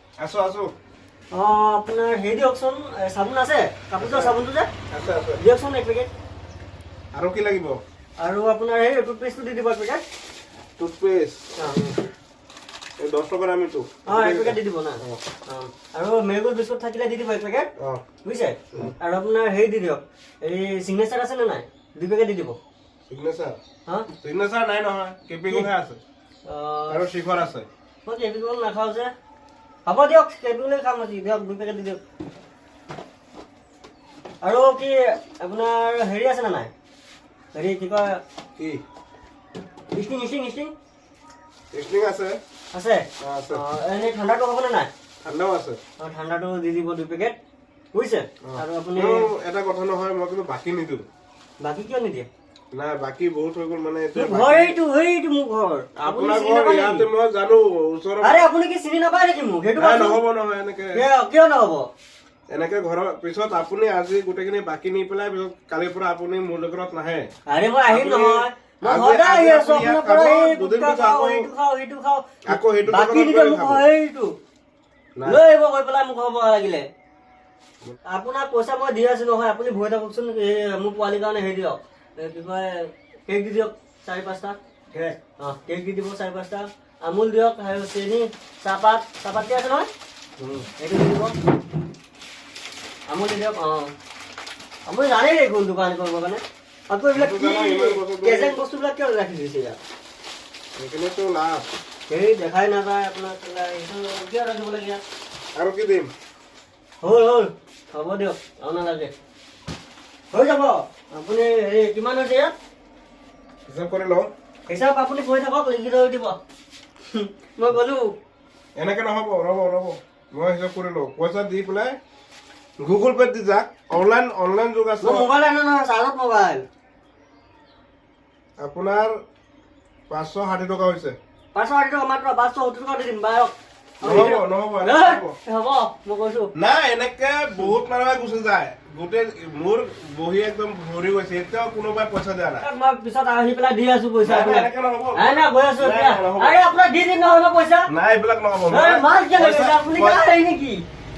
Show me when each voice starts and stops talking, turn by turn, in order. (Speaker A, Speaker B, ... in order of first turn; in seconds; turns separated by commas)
Speaker A: 0.2-0.7, Speaker B: 1.3-4.7, Speaker A: 4.0-4.3, Speaker A: 4.9-5.4, Speaker B: 5.4-6.1, Speaker A: 7.1-7.8, Speaker B: 8.2-10.0, Speaker A: 10.8-12.1, Speaker A: 13.0-15.2, Speaker B: 14.1-17.7, Speaker A: 17.8-18.0, Speaker B: 18.2-22.6, Speaker A: 23.1-23.6, Speaker A: 24.2-26.0, Speaker B: 26.4-27.1, Speaker A: 26.9-27.7, Speaker B: 28.0-29.1, Speaker B: 29.9-32.0, Speaker B: 34.4-36.7, Speaker B: 37.5-38.2, Speaker B: 39.9-40.7, Speaker A: 41.7-42.4, Speaker B: 42.7-44.9, Speaker A: 43.2-43.6, Speaker A: 45.2-45.8, Speaker B: 46.0-47.4, Speaker B: 47.9-49.3, Speaker A: 48.4-51.0, Speaker B: 51.6-52.3, Speaker A: 52.7-54.8, Speaker B: 54.1-57.0, Speaker A: 56.0-58.4, Speaker B: 58.2-60.2, Speaker A: 59.8-61.0, Speaker B: 60.9-61.9, Speaker A: 62.5-67.3, Speaker B: 67.5-74.3, Speaker A: 67.9-71.5, Speaker A: 72.5-73.8, Speaker B: 75.2-76.9, Speaker B: 78.0-89.9, Speaker A: 90.4-90.7, Speaker B: 90.8-91.3, Speaker B: 93.1-93.9, Speaker B: 94.9-99.8, Speaker A: 97.1-98.6, Speaker A: 100.8-101.7, Speaker B: 102.1-105.0, Speaker A: 105.5-106.1, Speaker B: 107.0-109.1, Speaker B: 110.3-112.5, Speaker A: 113.7-114.3, Speaker B: 114.7-116.4, Speaker B: 117.1-118.1, Speaker A: 118.8-122.0, Speaker A: 122.8-125.3, Speaker B: 125.0-126.6, Speaker A: 128.6-129.1, Speaker A: 130.1-131.2, Speaker B: 131.5-136.5, Speaker A: 134.0-135.3, Speaker A: 136.5-142.6, Speaker B: 142.6-147.9, Speaker A: 144.2-146.6, Speaker A: 147.9-150.2, Speaker B: 148.7-150.8